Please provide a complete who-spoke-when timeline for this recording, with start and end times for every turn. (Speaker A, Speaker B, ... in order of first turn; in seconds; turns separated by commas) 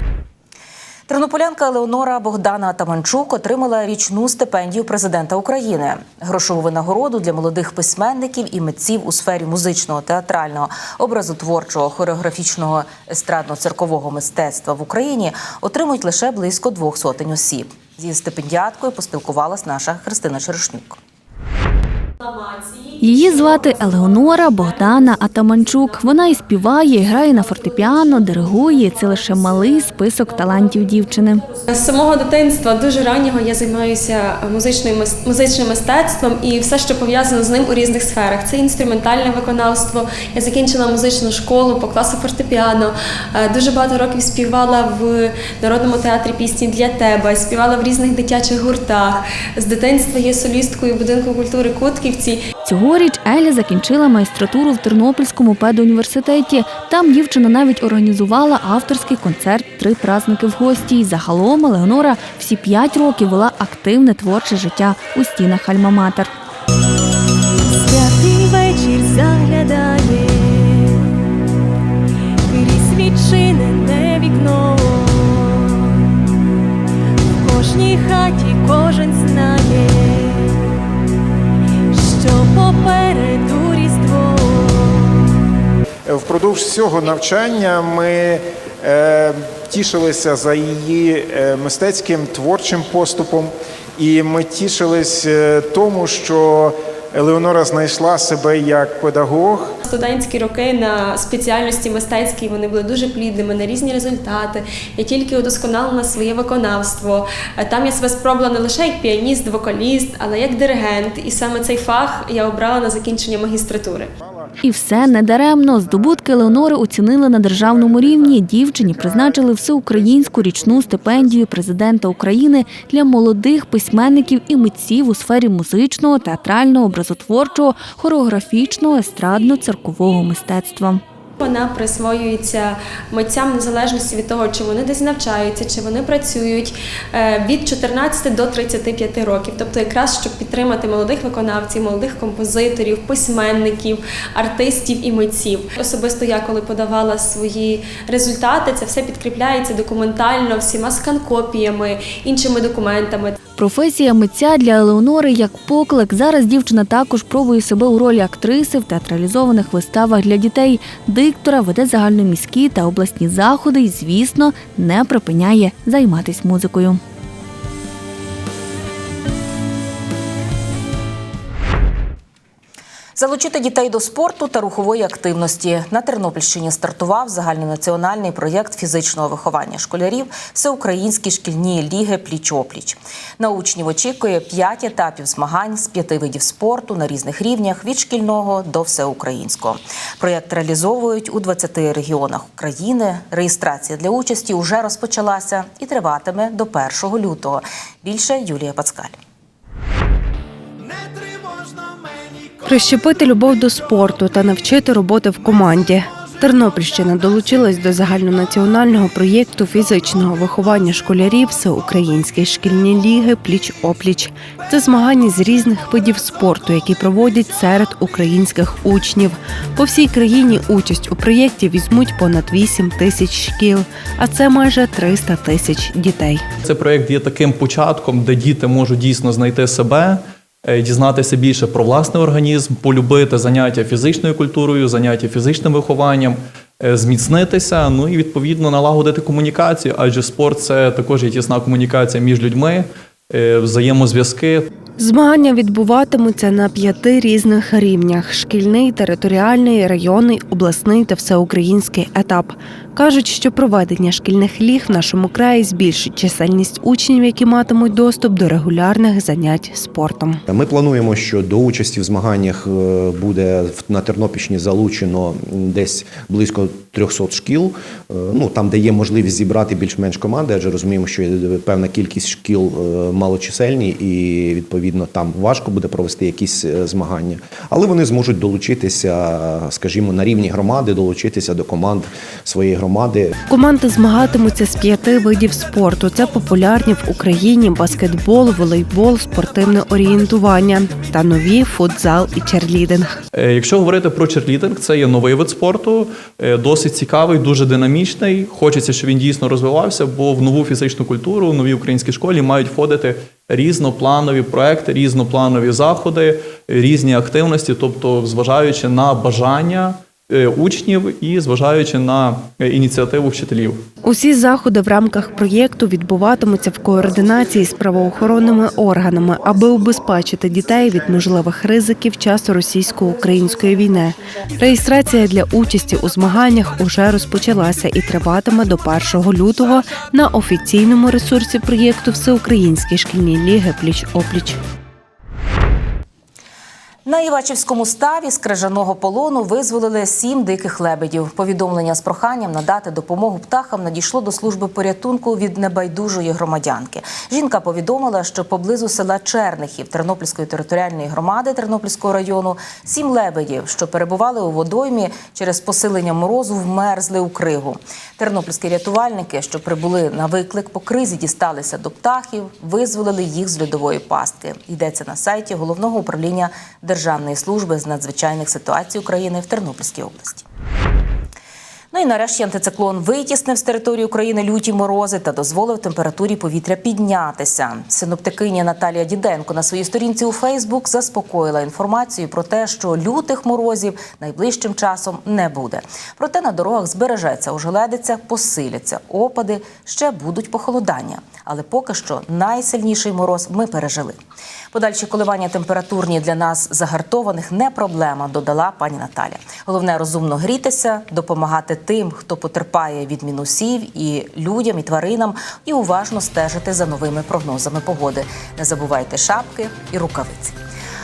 Speaker A: 1.1-21.0, Speaker B: 23.0-31.4, Speaker C: 31.6-52.4, Speaker B: 52.7-66.3, Speaker D: 67.8-71.1, Speaker D: 72.5-76.1, Speaker D: 77.4-80.7, Speaker D: 81.9-85.4, Speaker E: 86.1-99.7, Speaker C: 99.8-114.1, Speaker B: 114.6-131.0, Speaker C: 131.4-153.4, Speaker B: 153.6-167.0, Speaker A: 173.2-199.2, Speaker F: 202.7-226.4, Speaker G: 226.6-244.7, Speaker F: 245.0-260.4, Speaker H: 260.5-283.3, Speaker F: 283.5-293.1, Speaker G: 293.3-313.8, Speaker F: 314.0-334.6, Speaker A: 337.1-370.4, Speaker A: 371.9-394.1, Speaker A: 394.7-410.6